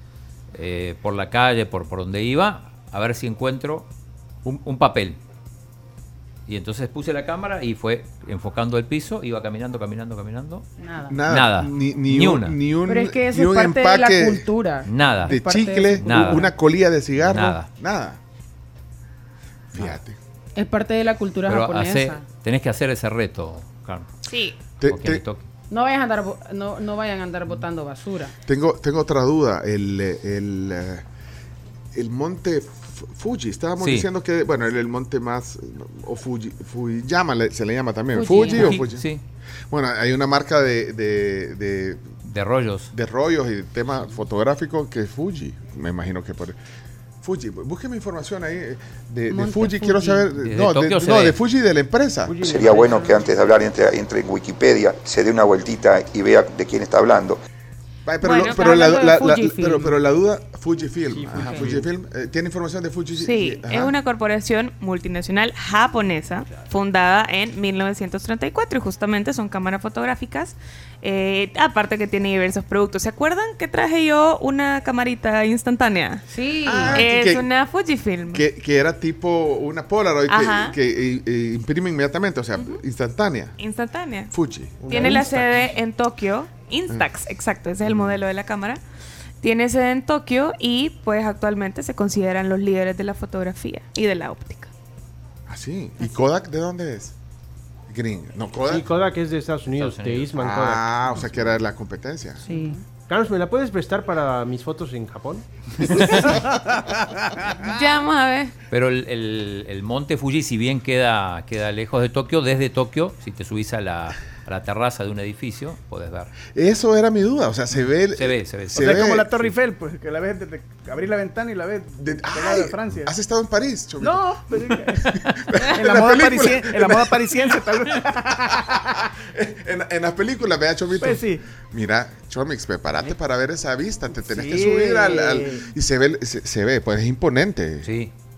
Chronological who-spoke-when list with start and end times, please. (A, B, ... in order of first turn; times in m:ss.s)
0:00.5-0:03.9 A
0:04.4-0:05.2 A
0:06.5-0:10.7 A
0:10.8-0:11.2 B
0:11.1-0:14.5 C
0:11.3-0:12.6 A
0:12.9-0:16.5 B
0:14.8-0:15.4 A
0:15.2-0:18.2 C
0:16.0-0:16.5 A
0:17.2-0:17.7 A
0:19.7-0:20.2 C
0:20.6-0:22.2 B
0:21.5-0:24.1 A
0:24.2-0:24.6 D
0:24.8-0:25.2 C
0:24.8-0:25.5 A
0:25.7-0:28.3 B
0:28.4-0:31.0 C
0:31.9-0:39.1 C
0:33.8-0:34.1 A
0:38.1-0:38.8 B
0:38.5-0:39.2 A
0:39.7-0:42.1 C
0:42.2-0:42.9 A
0:42.9-0:46.6 C
0:47.2-0:52.4 C
0:49.3-0:50.2 B
0:50.4-0:51.4 A
0:52.2-0:53.3 E
0:52.4-0:57.4 F
0:58.0-1:03.9 C
0:58.2-0:59.2 D
0:58.4-0:59.9 B
1:01.1-1:01.8 E
1:03.2-1:16.2 D
1:16.3-1:17.1 B
1:16.6-1:17.4 C
1:16.9-1:18.5 D
1:18.3-1:23.6 C
1:20.3-1:20.8 D
1:22.6-1:22.8 D
1:23.6-1:24.3 D
1:24.3-1:24.9 C
1:24.8-1:25.6 E
1:24.9-1:28.8 D
1:27.9-1:28.2 C
1:29.4-1:34.7 D
1:35.5-1:37.1 C
1:37.9-1:38.9 C
1:38.7-1:40.9 E
1:39.7-1:40.6 A
1:40.4-1:42.4 C
1:41.1-1:41.6 A
1:42.4-1:45.4 E
1:42.5-1:42.8 B
1:47.6-1:48.5 D
1:48.7-1:56.3 A
1:56.5-1:59.2 C
1:58.2-1:59.5 A
1:58.7-2:03.1 G
2:02.0-2:04.6 C
2:04.0-2:08.7 G
2:05.2-2:07.2 C
2:09.3-2:17.9 C
2:11.0-2:11.4 G
2:14.2-2:15.6 G
2:17.8-2:18.1 A